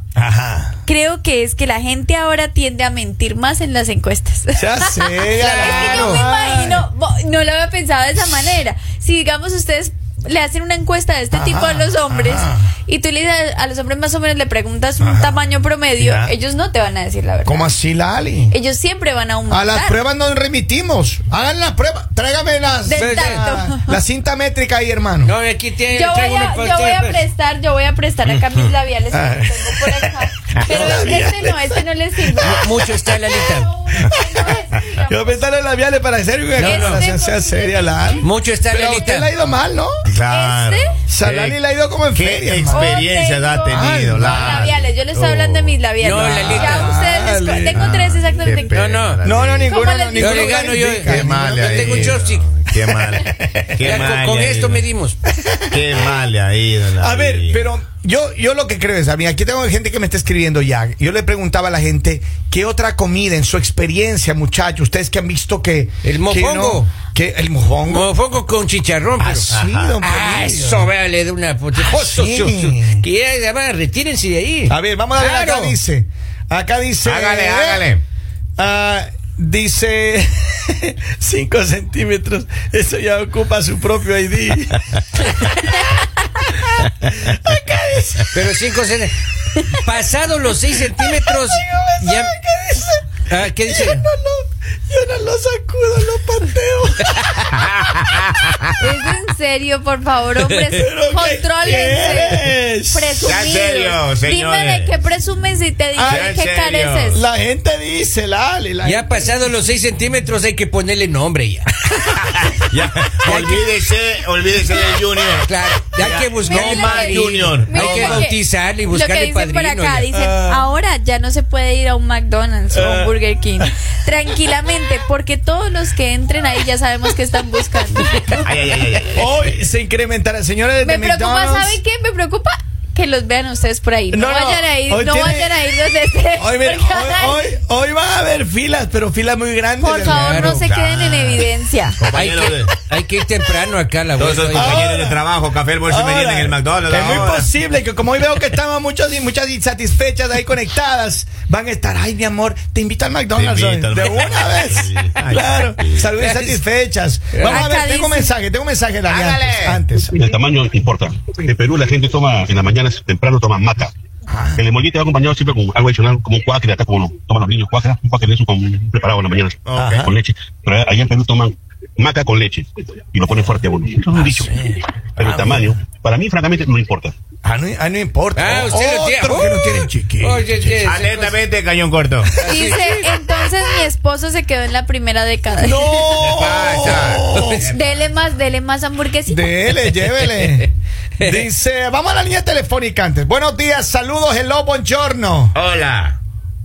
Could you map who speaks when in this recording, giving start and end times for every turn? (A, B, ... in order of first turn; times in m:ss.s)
0:00.2-0:00.8 A
0:00.8-0:17.7 B
0:04.6-0:06.9 A
0:05.4-0:05.8 C
0:11.3-0:12.7 A
0:15.0-0:15.4 A
0:16.0-0:16.3 A
0:17.4-0:18.6 A
0:18.5-0:20.0 B
0:19.5-0:25.3 A
0:22.8-0:24.0 B
0:22.9-0:23.6 C
0:25.2-0:27.2 C
0:25.9-0:35.5 B
0:28.3-0:28.7 D
0:29.1-0:31.7 A
0:30.5-0:31.2 D
0:32.4-0:33.7 C
0:32.4-0:32.8 A
0:34.0-0:40.0 A
0:36.6-0:37.1 C
0:36.6-0:38.1 B
0:38.2-0:39.3 C
0:40.0-0:41.5 D
0:40.3-0:41.0 B
0:41.1-0:43.0 A
0:42.1-0:45.8 D
0:42.7-0:48.8 B
0:43.7-0:44.6 C
0:43.7-0:44.6 A
0:46.0-0:46.9 C
0:46.1-0:48.7 A
0:47.7-0:49.8 D
0:48.6-0:49.2 C
0:49.2-0:52.2 A
0:49.6-0:51.2 B
0:50.2-0:52.7 C
0:51.1-0:54.8 D
0:53.1-0:53.4 B
0:53.4-0:55.2 C
0:55.3-0:56.0 A
0:55.7-0:57.7 D
0:57.0-1:08.1 A
1:06.0-1:06.9 C
1:07.9-1:09.5 C
1:09.2-1:10.9 A
1:09.5-1:10.0 D
1:10.0-1:15.8 C
1:11.8-1:13.1 A
1:14.7-1:17.9 A
1:17.0-1:18.0 D
1:18.6-1:28.5 A
1:28.3-1:32.4 C
1:30.8-1:38.0 A
1:33.3-1:34.1 C
1:38.8-1:47.2 B
1:40.4-1:40.8 C
1:40.8-1:43.4 A
1:43.2-1:44.9 D
1:46.0-1:46.3 A
1:46.0-1:47.2 D
1:47.1-1:49.3 A
1:48.8-1:52.1 C
1:52.2-1:58.3 D
1:53.2-1:53.7 C
1:55.4-2:00.1 C
1:56.4-2:08.5 B
2:00.1-2:00.7 A
2:02.7-2:03.7 A
2:08.4-2:09.5 D
2:09.1-2:11.8 A
2:10.8-2:17.5 B
2:14.1-2:15.7 A
2:16.4-2:20.4 A
2:19.8-2:22.0 B
2:20.0-2:20.7 C
2:20.5-2:22.7 D
2:22.0-2:24.8 C
2:24.2-2:27.5 D
2:24.5-2:25.2 A
2:25.8-2:40.2 A
2:33.3-2:36.1 D
2:36.2-2:36.6 C
2:37.3-2:37.7 C
2:37.5-2:38.3 B
2:39.1-2:40.0 D
2:40.1-2:43.9 E
2:44.3-2:44.6 A
2:44.6-2:57.1 E
2:49.7-2:50.1 D
2:49.7-2:50.1 A
2:54.2-2:55.7 A
2:57.4-3:00.8 A
2:58.4-3:01.4 C
3:00.8-3:02.4 D
3:02.4-3:03.2 C
3:02.4-3:06.2 B
3:05.6-3:07.6 A
3:06.2-3:07.8 D
3:06.6-3:07.7 C
3:07.6-3:09.6 B
3:09.3-3:15.6 A
3:09.7-3:10.7 C
3:15.5-3:16.2 D